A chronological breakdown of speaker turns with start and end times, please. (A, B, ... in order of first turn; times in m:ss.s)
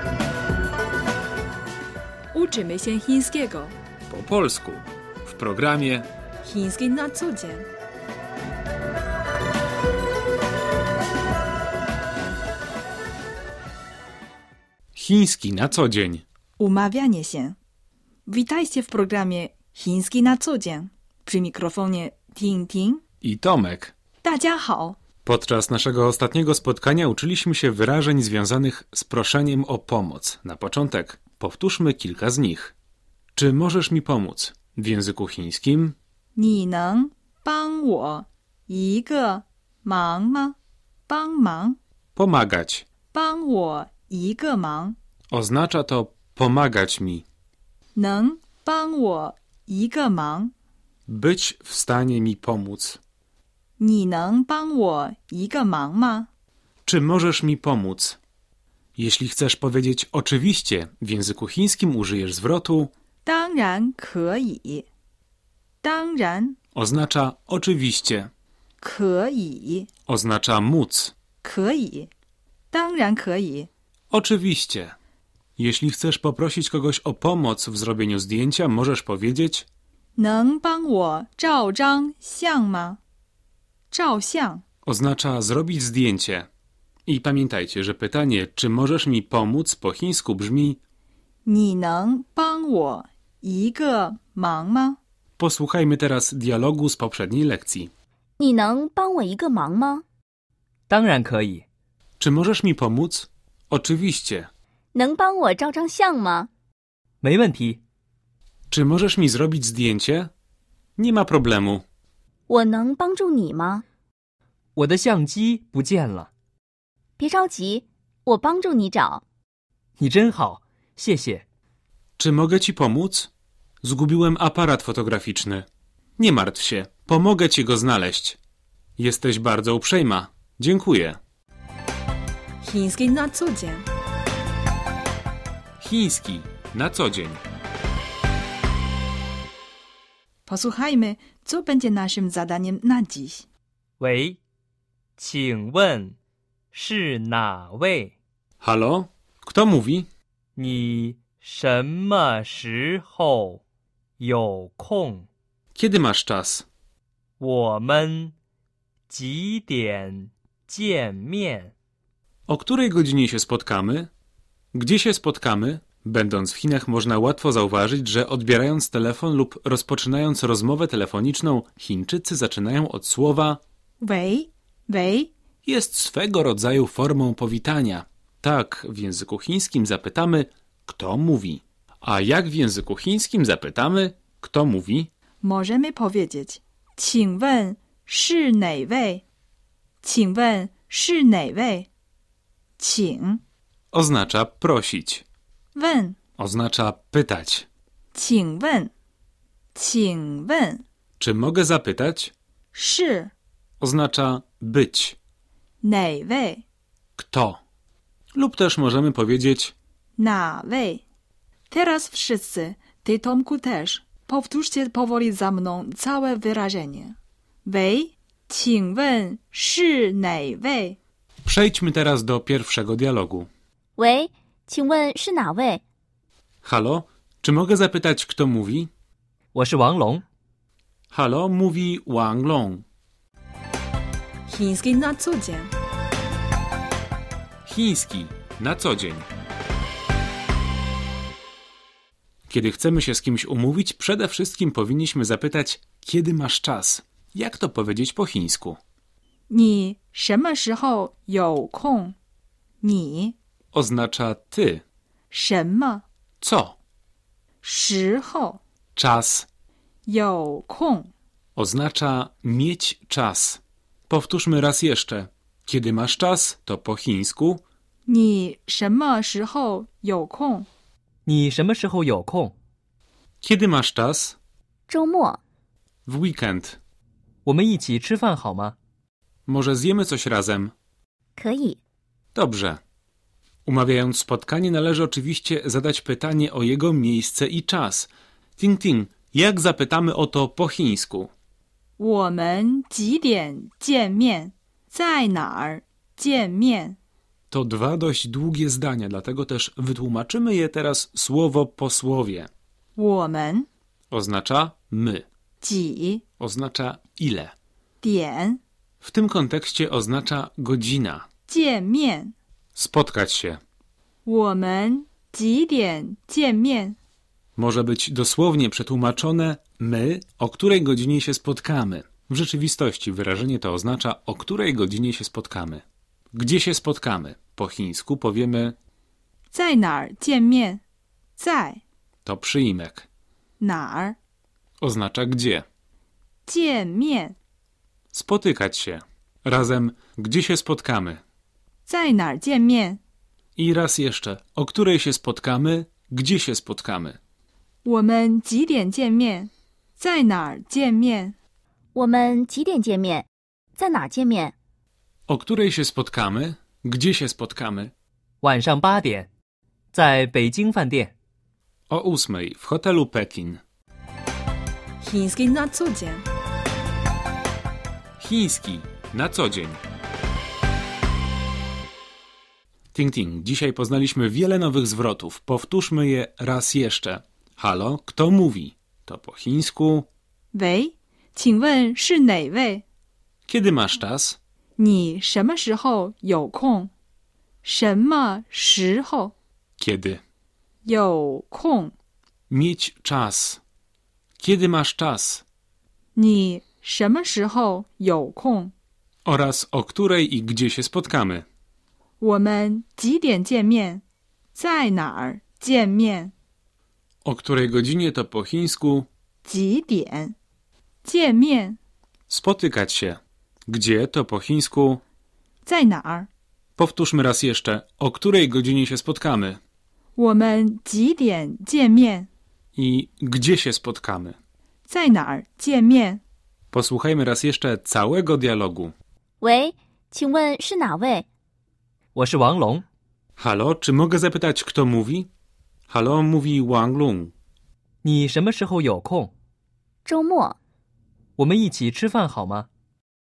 0:02.3-0:03.7 A
0:04.1-0:06.1 B
0:06.4-0:07.7 A
0:14.9-0:16.2 B
0:16.6-0:17.6 A
0:18.2-0:23.0 A
0:23.2-0:23.9 B
0:24.2-0:25.0 A
0:25.2-0:32.7 B
0:33.3-0:36.0 B
0:36.3-0:40.6 A
0:41.1-0:41.8 A
0:42.2-0:42.8 B
0:43.1-0:45.0 A
0:45.3-0:47.2 B
0:48.0-0:50.5 A
0:51.1-0:53.0 B
0:53.8-0:56.3 A
0:56.8-0:58.2 B
0:59.0-1:02.9 B
1:03.2-1:04.9 A
1:05.8-1:06.6 A
1:06.7-1:08.3 B
1:08.8-1:09.9 A
1:10.1-1:11.1 B
1:11.4-1:12.1 A
1:12.7-1:13.7 A
1:14.1-1:15.0 B
1:15.6-1:19.6 B
1:20.2-1:23.0 A
1:23.9-1:24.6 A
1:24.8-1:26.5 B
1:27.1-1:30.8 B
1:31.4-1:35.0 A
1:35.4-1:37.9 B
1:38.4-1:40.0 C
1:40.9-1:41.6 D
1:42.2-1:44.5 B
1:44.9-1:46.5 C
1:47.2-1:47.8 D
1:48.7-1:50.3 B
1:51.0-1:51.8 B
1:52.5-1:53.8 C
1:54.8-1:56.3 D
1:57.2-1:59.2 C
2:00.0-2:01.4 D
2:02.2-2:03.3 B
2:03.8-2:05.6 B
2:06.2-2:08.4 B
2:09.0-2:11.2 B
2:12.6-2:13.9 A
2:15.8-2:17.4 B
2:20.4-2:23.4 A
2:24.0-2:24.4 D
2:25.2-2:26.2 D
2:26.7-2:28.1 D
2:28.6-2:30.1 B
2:30.6-2:33.6 D
2:34.2-2:35.3 D
2:35.7-2:36.6 B
2:37.4-2:38.3 D
2:39.1-2:41.7 D
2:42.5-2:44.1 B
2:44.7-2:53.6 B
2:54.0-2:55.3 A
2:55.6-3:05.1 B
3:05.4-3:09.2 A
3:10.0-3:11.9 A
3:12.8-3:13.4 A
3:13.9-3:15.2 B
3:15.7-3:16.2 A
3:16.4-3:17.7 B
3:18.1-3:18.9 A
3:19.7-3:20.8 A
3:21.2-3:22.3 B
3:22.7-3:23.3 A
3:23.8-3:25.2 B
3:25.8-3:26.6 A
3:27.2-3:27.6 B
3:28.3-3:29.7 B
3:30.2-3:31.0 A
3:31.7-3:41.0 A
3:41.4-3:43.5 B
3:44.0-3:45.8 C
3:46.6-3:48.9 B
3:49.5-3:50.2 D
3:51.1-3:52.8 B
3:54.5-3:55.7 A
3:57.6-3:59.3 B
4:02.5-4:08.8 B
4:09.5-4:12.1 A
4:12.8-4:13.3 A
4:13.7-4:14.8 B
4:15.3-4:16.0 A
4:16.4-4:16.8 B
4:17.6-4:18.6 A
4:19.0-4:19.5 B
4:20.1-4:21.1 A
4:21.6-4:27.6 B
4:28.1-4:30.7 A
4:31.2-4:32.5 D
4:33.4-4:34.4 B
4:34.9-4:35.4 C
4:36.0-4:36.8 B
4:37.4-4:38.8 D
4:39.5-4:40.7 B
4:41.4-4:41.8 C
4:42.3-4:42.8 B
4:43.6-4:51.3 B
4:52.0-4:57.0 A
4:57.5-5:02.5 B
5:03.0-5:03.7 A
5:04.1-5:05.2 B
5:05.6-5:06.2 A
5:06.4-5:07.5 B
5:08.0-5:08.6 A
5:09.0-5:11.2 B
5:11.5-5:12.3 A
5:12.8-5:13.6 B
5:14.2-5:17.0 A
5:17.6-5:28.8 B
5:29.5-5:30.8 A
5:31.4-5:31.8 A
5:32.2-5:33.1 B
5:33.6-5:34.2 A
5:34.8-5:35.6 B
5:36.4-5:37.4 A
5:38.1-5:41.2 B
5:41.8-5:43.0 A
5:43.6-5:47.2 B
5:47.8-5:51.4 A
5:51.9-5:54.5 C
5:55.3-5:57.9 B
5:58.4-5:59.3 D
5:59.9-6:01.1 D
6:01.9-6:03.6 B
6:05.0-6:06.2 A
6:08.2-6:09.8 B
6:12.9-6:20.1 B
6:20.5-6:22.8 A
6:23.5-6:24.4 B
6:24.8-6:26.9 A
6:27.6-6:29.3 A
6:29.8-6:30.2 B
6:30.8-6:31.9 A
6:32.5-6:33.6 B
6:34.4-6:35.4 B
6:36.2-6:38.7 A
6:39.2-6:41.4 B
6:42.2-6:46.3 A
6:47.2-6:49.1 B
6:49.4-6:50.4 A
6:51.0-6:51.8 A
6:52.3-6:55.0 B
6:55.6-6:56.3 A
6:56.8-6:59.6 B
7:00.2-7:02.3 A
7:02.8-7:04.4 B
7:04.9-7:06.2 A
7:06.7-7:08.9 B
7:09.4-7:11.2 C
7:12.1-7:12.8 D
7:13.4-7:15.3 B
7:15.9-7:17.3 B
7:18.0-7:19.3 D
7:20.0-7:20.6 C
7:21.4-7:22.7 D